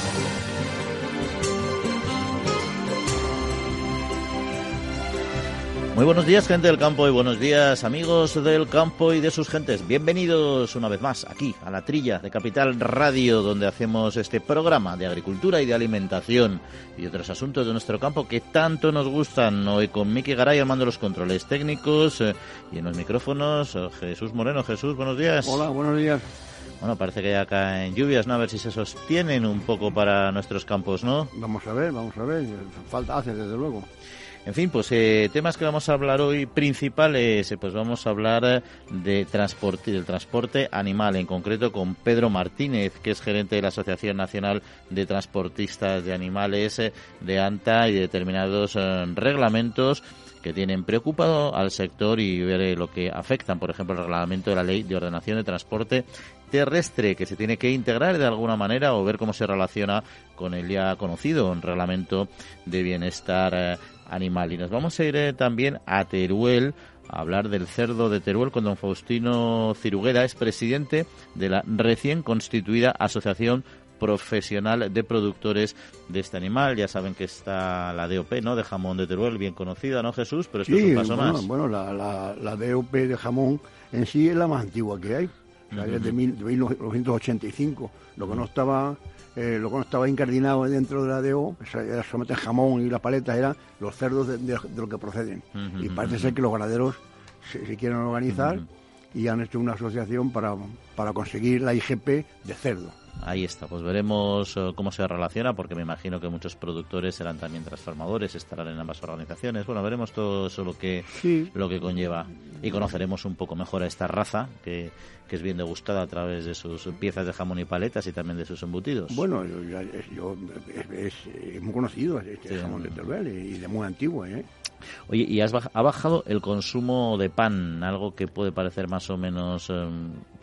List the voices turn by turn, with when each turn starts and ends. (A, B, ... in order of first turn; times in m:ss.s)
0:05.9-0:25.6 A
0:25.4-0:26.3 B
0:26.8-0:31.3 A
0:31.3-0:33.9 B
0:34.4-1:21.4 A
1:20.7-1:43.0 B
1:25.7-1:26.1 A
1:35.6-1:36.3 A
1:43.2-1:59.2 A
1:51.1-1:51.5 B
1:59.1-2:04.5 B
2:02.5-2:03.0 A
2:05.1-2:10.2 A